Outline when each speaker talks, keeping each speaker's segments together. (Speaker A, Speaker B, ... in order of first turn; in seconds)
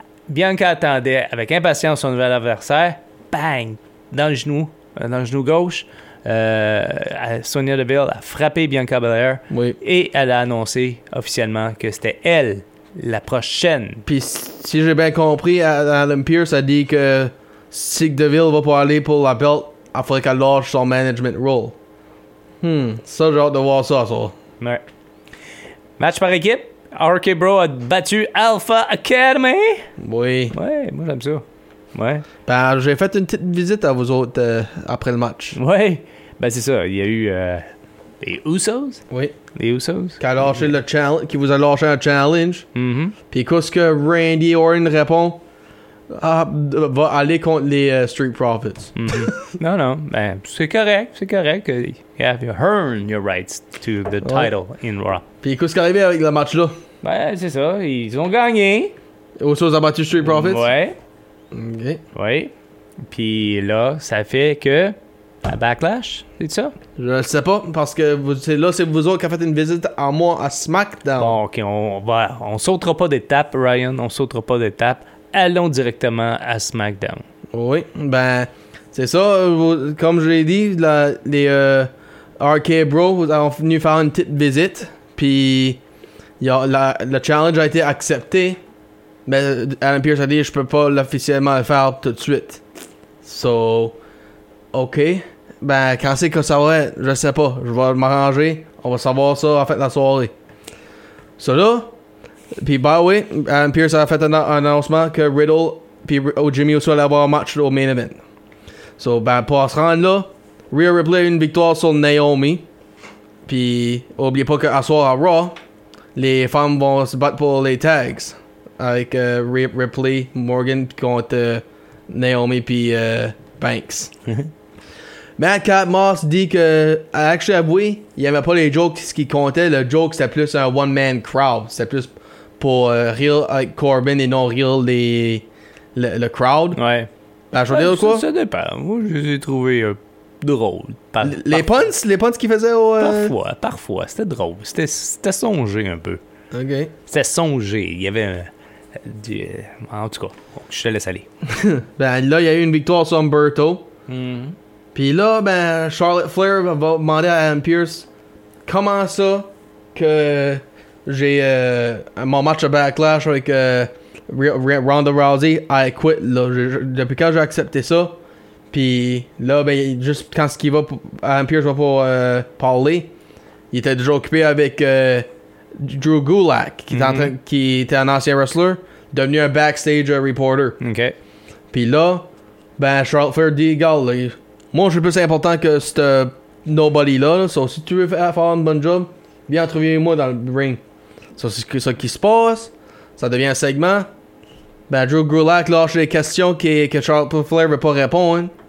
Speaker A: 0.3-14.0, 24.6-24.8, 26.0-29.9, 30.5-32.2, 35.5-37.6, 38.2-39.0, 39.5-40.7, 42.7-43.1, 49.0-55.2, 57.0-58.9, 60.2-61.0, 62.1-62.5, 63.1-66.7, 71.2-77.2, 136.7-137.1, 137.7-141.7, 143.0-146.2, 147.1-151.3, 154.1-154.6, 176.9-177.3, 180.8-181.2
Speaker B: 9.5-9.8, 14.1-21.7, 22.6-24.3, 30.0-30.5, 32.5-35.6, 40.2-42.6, 43.3-45.4, 46.1-48.9, 54.2-54.5, 55.4-56.8, 59.4-60.7, 61.5-62.0, 67.0-71.4, 77.5-85.8, 86.4-88.6, 89.2-92.6, 93.2-94.0, 94.7-100.3, 101.4-101.9, 102.6-108.2, 109.0-112.7, 113.5-115.5, 116.2-124.1, 125.4-136.8, 137.5-138.2, 141.2-143.3, 146.5-146.9, 151.6-153.8, 154.9-158.1, 158.7-168.2, 168.7-173.1, 173.7-180.8, 181.7-182.3, 182.8-190.8, 191.4-194.1, 194.9-198.5